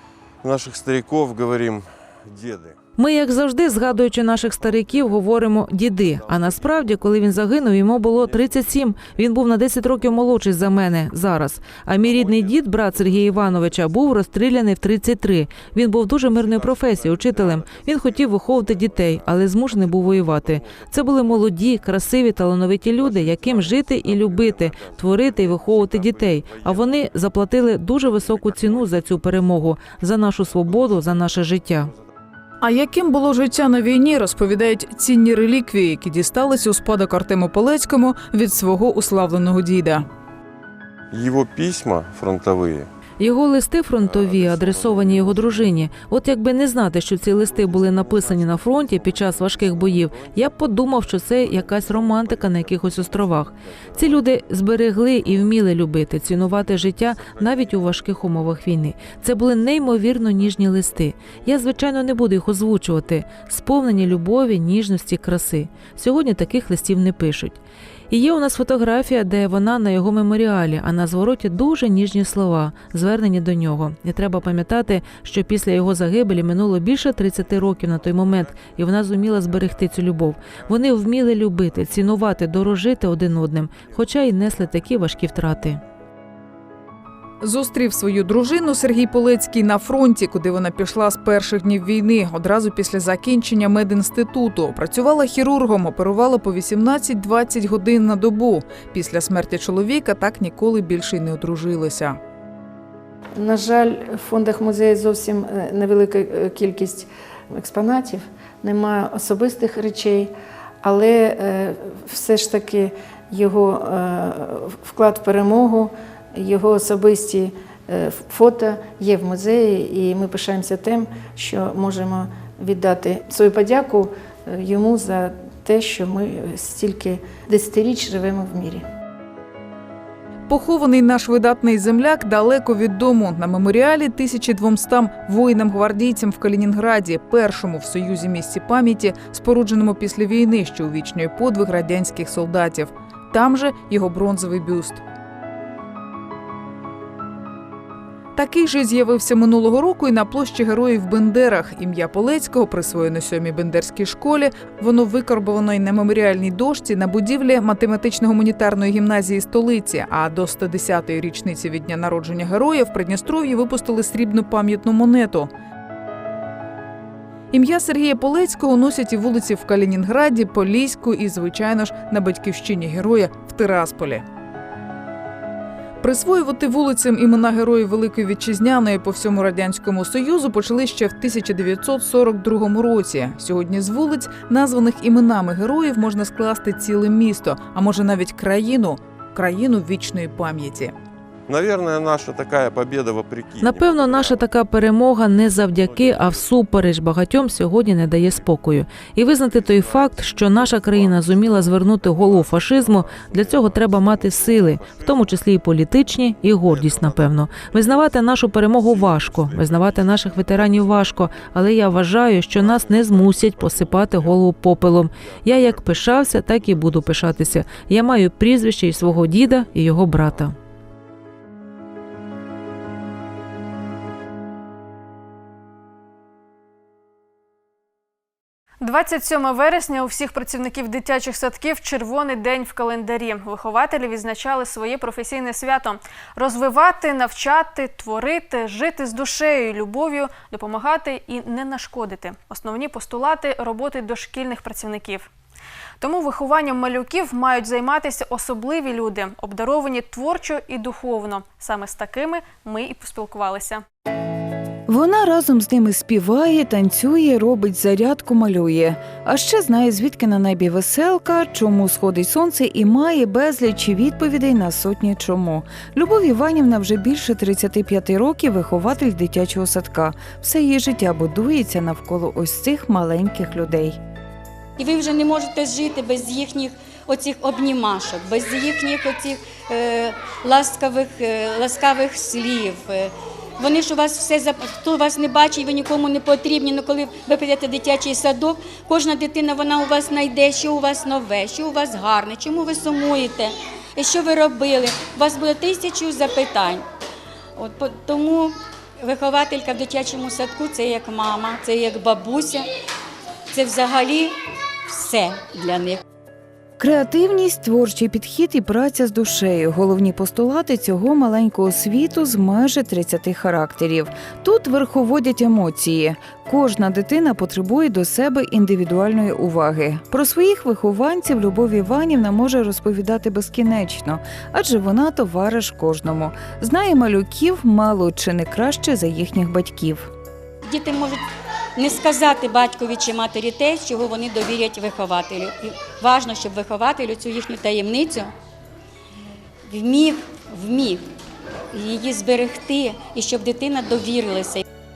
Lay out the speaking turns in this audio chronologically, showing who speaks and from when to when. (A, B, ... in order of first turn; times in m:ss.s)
0:00.4-0:02.8 A
0:03.0-0:31.9 B
0:03.7-0:09.3 A
0:10.0-0:10.9 A
0:11.9-0:13.9 A
0:16.1-0:21.6 A
0:23.0-0:27.0 A
0:28.0-0:29.6 A
0:30.4-0:31.1 A
0:32.6-0:40.0 C
0:41.1-0:42.9 A
0:43.2-1:07.6 B
0:44.0-0:45.8 A
0:47.3-0:54.3 A
0:55.0-0:58.5 A
1:00.3-1:01.9 A
1:08.1-1:25.8 B
1:17.0-1:22.4 A
1:23.7-1:24.8 A
1:27.4-1:42.2 C
1:43.4-2:08.8 D
2:10.5-2:25.0 C
2:28.3-2:45.5 C
2:47.5-2:54.2 C
2:56.0-3:10.9 C
3:11.5-3:14.4 A
3:13.6-3:40.6 B
3:15.6-3:16.6 A
3:18.2-3:18.5 A
3:19.2-3:25.4 A
3:26.6-3:31.8 A
3:32.5-3:38.1 A
3:38.9-3:40.5 A
3:48.8-4:05.3 E
4:06.0-4:13.8 E
4:14.9-4:34.0 F
4:34.8-4:56.8 G
4:57.6-5:02.7 G
5:03.5-5:06.0 G
5:06.8-5:30.1 F
5:30.6-5:31.2 G
5:31.8-5:38.3 G
5:39.7-5:41.0 G
5:41.7-5:44.6 G